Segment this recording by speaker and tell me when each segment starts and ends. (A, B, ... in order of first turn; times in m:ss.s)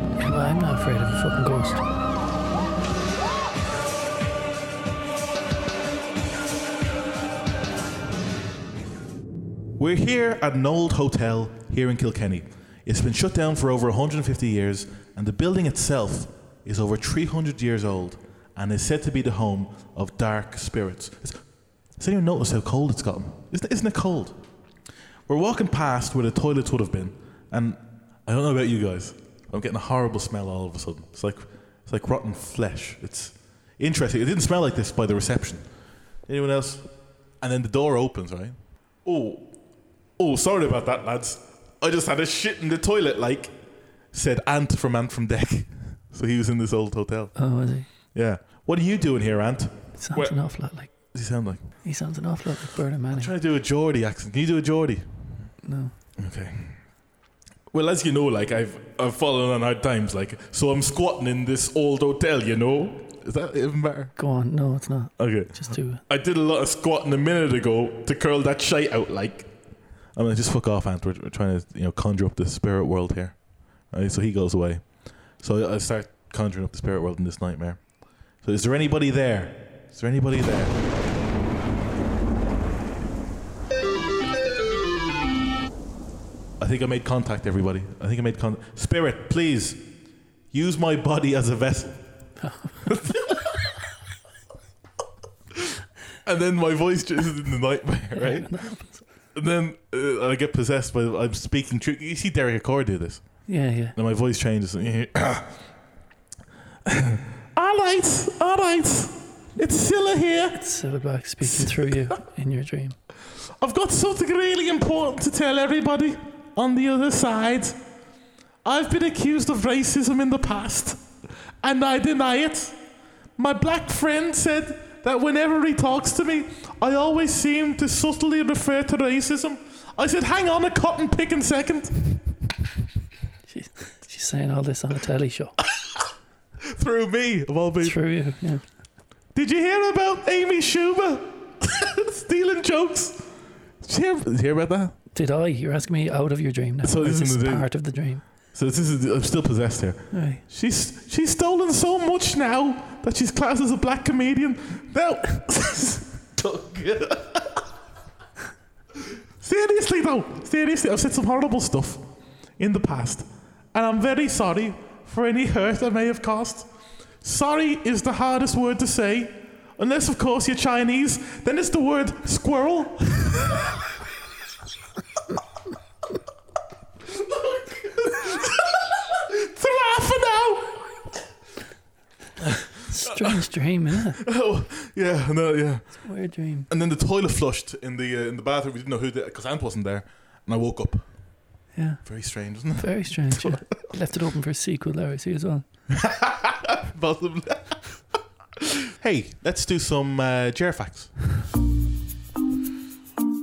0:00.2-0:01.8 A
0:09.8-0:24.4 B
0:25.3-0:35.7 B
0:36.2-0:36.9 B
0:37.4-0:39.6 B
0:40.2-0:43.6 B
0:44.1-0:47.4 B
0:47.4-0:47.9 A
0:48.0-0:51.7 B
0:50.0-0:50.9 A
0:51.8-0:53.3 A
0:53.1-0:55.5 B
0:55.6-0:56.0 A
0:56.2-0:56.8 B
0:57.7-1:04.2 B
1:04.2-1:06.0 A
1:05.2-1:20.8 B
1:26.6-1:29.9 B
1:30.5-1:32.0 B
1:32.4-1:32.8 A
1:32.8-1:33.5 B
1:36.2-1:38.6 B
1:38.1-1:39.1 A
1:39.3-1:45.7 B
1:43.4-1:43.9 A
1:46.8-1:50.6 B
1:50.5-1:53.0 A
1:51.4-1:52.1 B
1:53.6-1:57.8 B
1:58.6-2:01.0 B
2:01.6-2:02.8 B
2:03.4-2:12.3 B
2:13.4-2:15.6 A
2:16.7-2:18.1 B
2:17.8-2:18.7 A
2:19.3-2:25.0 B
2:25.1-2:28.2 A
2:26.8-2:37.6 B
2:30.1-2:30.4 A
2:39.4-2:42.0 B
2:42.6-2:46.7 B
2:47.2-2:53.7 B
2:57.1-3:01.0 B
3:02.8-3:04.2 A
3:04.2-3:11.3 B
3:06.0-3:06.7 A
3:11.7-3:12.2 A
3:12.0-3:13.9 B
3:12.7-3:15.6 A
3:16.0-3:18.0 B
3:18.9-3:21.3 B